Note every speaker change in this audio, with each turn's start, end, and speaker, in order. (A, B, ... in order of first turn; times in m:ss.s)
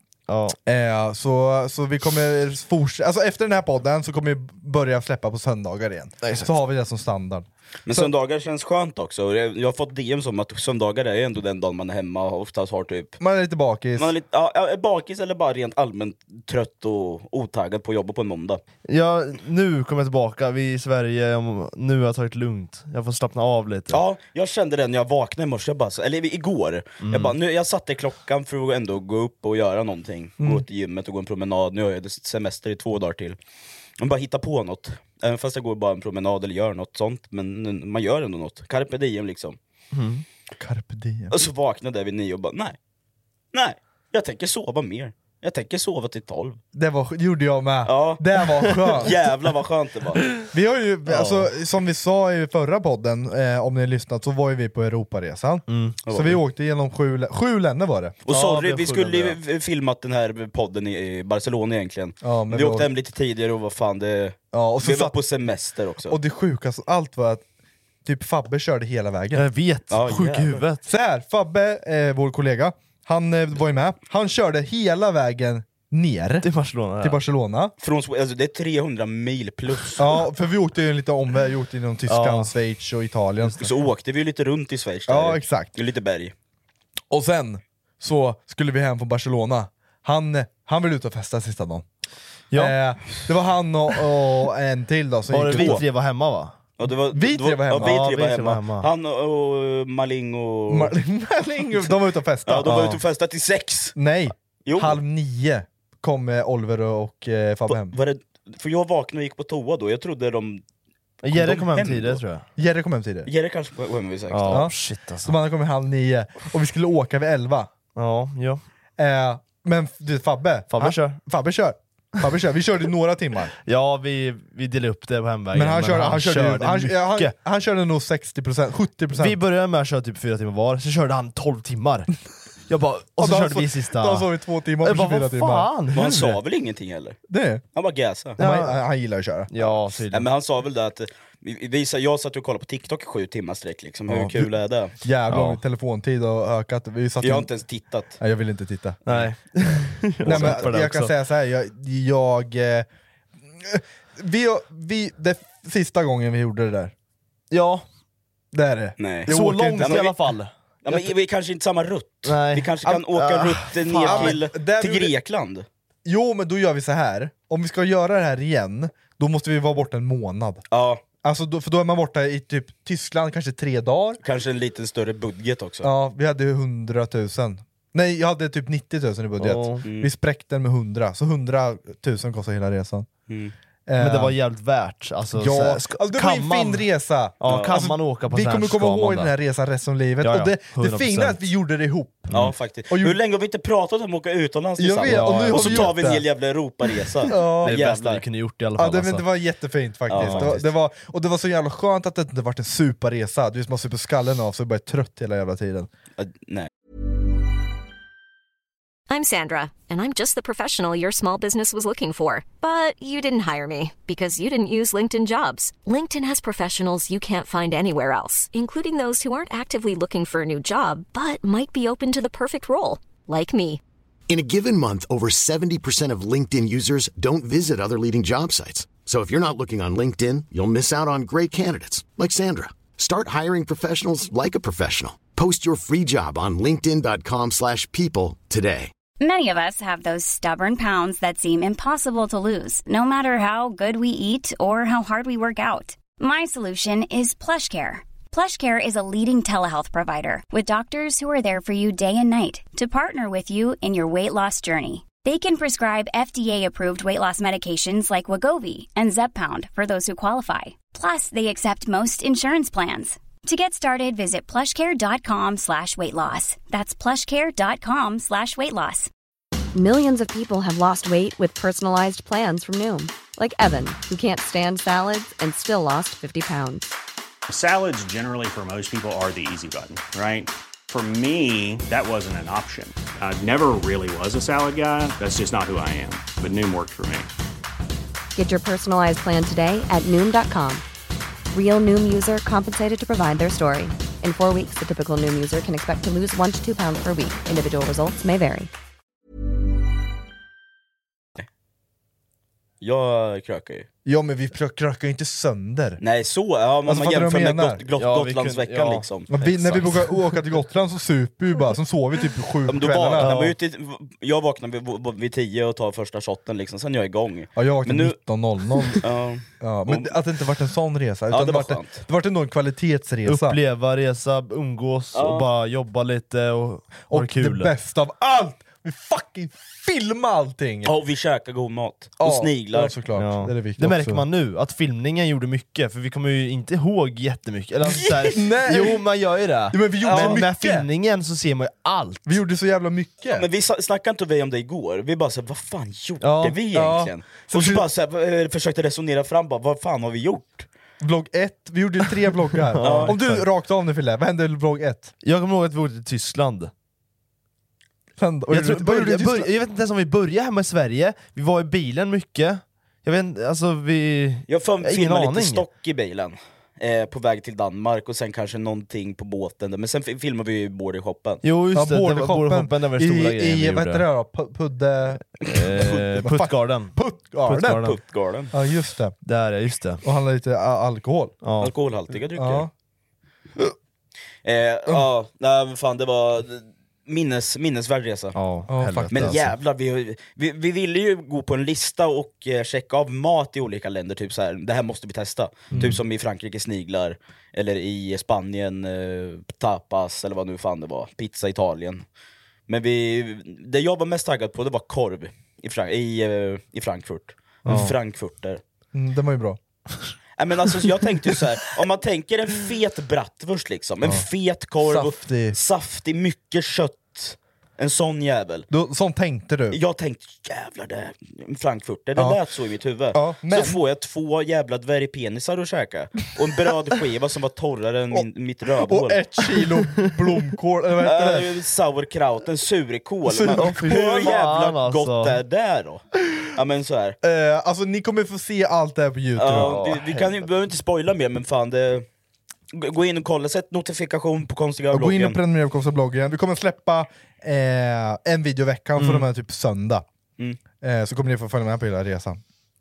0:00.3-0:00.6 A
0:00.6-0:08.1 B
0:06.2-0:06.5 A
0:07.8-0:13.2 C
0:13.2-0:14.1 B
0:14.0-0:18.6 C
0:18.9-0:24.0 A
0:23.9-0:33.4 C
0:27.0-0:27.3 A
0:34.0-0:39.6 C
0:39.9-0:40.2 A
0:40.6-0:41.4 B
0:41.3-0:42.8 C
0:43.5-0:46.6 C
0:46.7-0:49.2 B
0:47.8-0:48.3 C
0:49.0-0:50.2 C
0:50.4-0:58.2 B
0:51.1-0:51.4 C
0:55.7-0:56.0 A
0:56.0-0:56.4 C
0:58.2-1:06.2 C
0:58.3-0:59.4 A
1:02.2-1:02.9 B
1:04.5-1:05.1 B
1:06.1-1:07.4 B
1:08.0-1:09.4 B
1:09.3-1:10.8 A
1:09.9-1:10.6 C
1:10.8-1:16.5 B
1:16.4-1:17.2 A
1:17.0-1:17.7 B
1:17.8-1:20.2 C
1:20.0-1:23.7 B
1:22.1-1:22.5 A
1:23.6-1:26.3 C
1:25.1-1:25.7 B
1:27.1-1:31.8 B
1:32.5-1:32.8 A
1:32.5-1:35.8 B
1:35.3-1:36.6 A
1:35.5-1:35.8 C
1:36.8-1:40.9 C
1:37.1-1:38.0 B
1:37.8-1:38.9 A
1:40.7-1:42.8 B
1:42.4-1:44.0 C
1:42.7-1:43.0 A
1:44.0-1:47.9 B
1:44.6-1:45.0 C
1:47.7-1:50.6 C
1:51.2-1:52.4 A
1:51.3-1:52.2 C
1:52.6-1:53.3 B
1:53.2-1:54.6 C
1:54.3-1:55.3 A
1:54.5-1:57.7 B
1:57.9-1:58.6 A
1:59.0-2:03.5 B
2:00.7-2:01.2 A
2:03.6-2:07.3 A
2:05.5-2:09.4 B
2:09.2-2:12.1 A
2:12.7-2:14.3 A
2:13.2-2:15.7 B
2:14.8-2:16.4 A
2:15.9-2:17.2 C
2:17.3-2:17.6 B
2:17.7-2:18.4 C
2:18.4-2:18.8 A
2:18.4-2:19.5 B
2:19.5-2:20.3 A
2:19.6-2:24.9 C
2:24.1-2:27.5 B
2:25.3-2:25.6 A
2:27.2-2:28.2 C
2:28.2-2:29.0 B
2:29.0-2:31.1 A
2:30.2-2:32.9 B
2:30.2-2:30.7 C
2:33.5-2:36.9 B
2:37.5-2:37.8 A
2:38.5-2:40.1 B
2:39.0-2:40.1 C
2:39.3-2:41.0 A
2:40.8-2:45.6 C
2:42.2-2:44.4 A
2:44.0-2:45.1 B
2:46.0-2:50.7 B
2:50.7-2:51.0 C
2:51.2-2:54.2 B
2:54.2-2:55.9 C
2:55.8-3:03.1 B
2:59.4-2:59.8 A
2:59.8-3:00.1 C
3:03.3-3:03.5 C
3:03.9-3:04.4 B
3:04.0-3:06.8 A
3:05.3-3:12.3 B
3:07.4-3:09.3 A
3:07.5-3:07.9 C
3:10.2-3:11.4 A
3:12.3-3:18.2 C
3:12.9-3:13.2 B
3:14.8-3:16.2 B
3:15.1-3:16.0 A
3:17.3-3:17.8 B
3:17.3-3:19.2 A
3:18.8-3:25.9 B
3:20.1-3:20.6 C
3:20.1-3:20.6 A
3:26.2-3:26.7 C
3:29.1-3:43.8 D
3:44.3-3:58.9 E
3:59.2-4:29.1 F
4:29.7-4:36.9 G
4:37.5-4:47.3 H
4:48.4-4:50.8 G
4:51.5-4:58.7 G
5:02.8-5:03.9 C
5:04.0-5:06.0 B
5:06.0-5:10.0 C
5:06.8-5:07.8 B
5:08.0-5:09.1 A
5:09.3-5:13.3 B
5:12.7-5:18.2 C
5:13.2-5:13.5 A
5:17.6-5:19.0 B
5:19.0-5:20.1 C
5:19.6-5:23.6 B
5:21.3-5:22.0 C
5:23.3-5:27.7 A
5:25.1-5:25.5 C
5:27.1-5:30.9 B
5:30.8-5:32.9 C
5:32.2-5:34.2 B
5:33.2-5:42.2 A
5:38.3-5:39.0 B
5:39.7-5:40.9 B
5:40.0-5:40.4 C
5:42.2-5:43.5 B
5:43.3-5:50.7 C
5:46.2-5:46.6 A
5:46.7-5:47.8 B
5:51.0-5:55.1 B
5:52.7-5:53.4 A
5:52.8-5:53.1 C
5:55.2-5:56.7 A
5:58.2-5:59.5 B
5:58.5-6:05.6 A
6:04.5-6:11.4 C
6:11.4-6:14.0 A
6:11.7-6:15.2 B
6:15.4-6:16.9 A
6:15.8-6:17.9 B
6:17.4-6:18.0 A
6:17.8-6:18.5 C
6:18.5-6:19.1 B
6:19.2-6:20.0 A
6:20.0-6:21.4 B
6:21.4-6:21.7 A
6:21.6-6:22.7 C
6:22.4-6:22.7 B
6:24.4-6:28.3 C
6:28.3-6:29.5 A
6:28.7-6:29.4 B
6:29.1-6:42.0 C
6:35.7-6:36.0 B
6:42.7-6:48.6 C
6:47.7-6:47.9 A
6:48.9-6:49.6 B
6:50.4-6:58.7 C
6:54.8-6:55.6 B
6:58.7-6:59.8 B
6:59.7-7:09.2 C
7:03.1-7:03.8 B
7:08.8-7:11.5 B
7:11.0-7:17.2 C
7:13.3-7:13.9 B
7:13.5-7:15.4 A
7:17.2-7:19.8 B
7:19.4-7:22.0 C
7:19.5-7:20.4 A
7:22.7-7:25.4 C
7:24.9-7:30.0 B
7:30.8-7:32.4 B